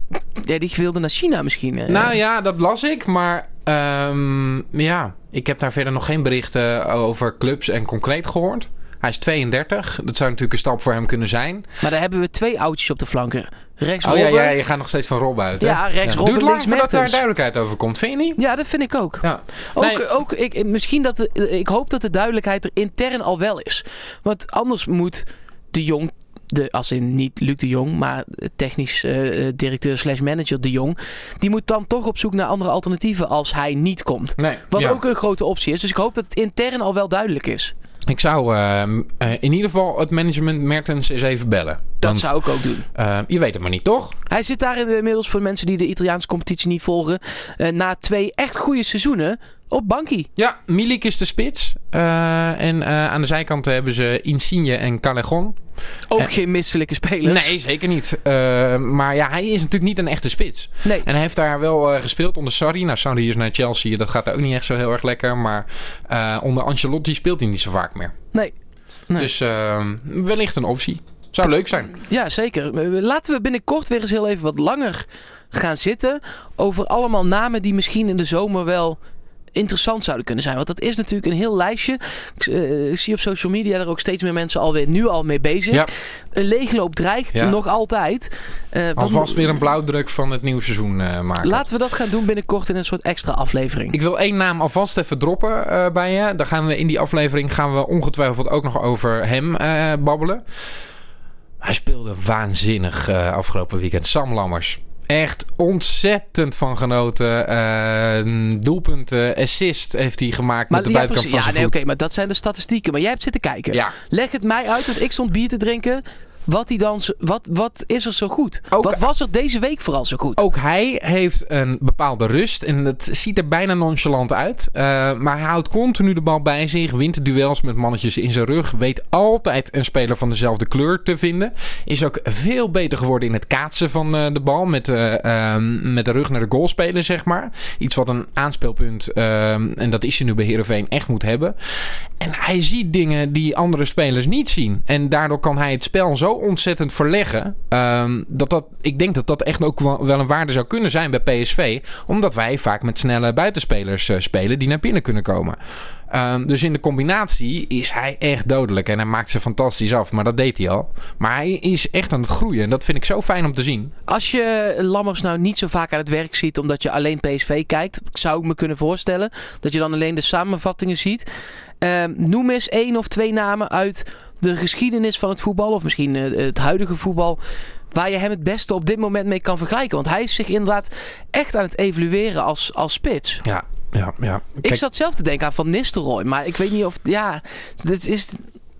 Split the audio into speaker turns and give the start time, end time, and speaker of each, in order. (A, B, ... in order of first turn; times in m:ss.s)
0:00.4-0:02.2 A
0:01.9-0:11.7 B
0:11.8-0:14.6 A
0:14.0-0:18.4 B
0:15.6-0:17.2 A
0:18.4-0:37.7 A
0:19.2-0:20.0 B
0:34.4-0:35.0 B
0:38.1-0:44.2 B
0:42.0-0:42.8 A
0:44.3-0:50.3 A
0:50.4-0:55.6 B
0:56.1-0:57.5 A
0:57.2-1:08.1 B
1:09.2-1:11.9 B
1:11.9-1:19.0 A
1:19.5-1:29.5 A
1:29.0-1:31.6 B
1:31.4-1:34.0 A
1:33.9-1:40.4 B
1:41.6-1:51.8 B
1:50.7-2:00.4 A
1:58.7-1:59.0 B
2:00.4-2:35.6 B
2:36.1-2:43.9 B
2:44.1-2:51.3 A
2:51.8-2:57.4 A
2:57.9-3:03.4 A
3:03.4-3:04.8 B
3:04.6-3:08.4 A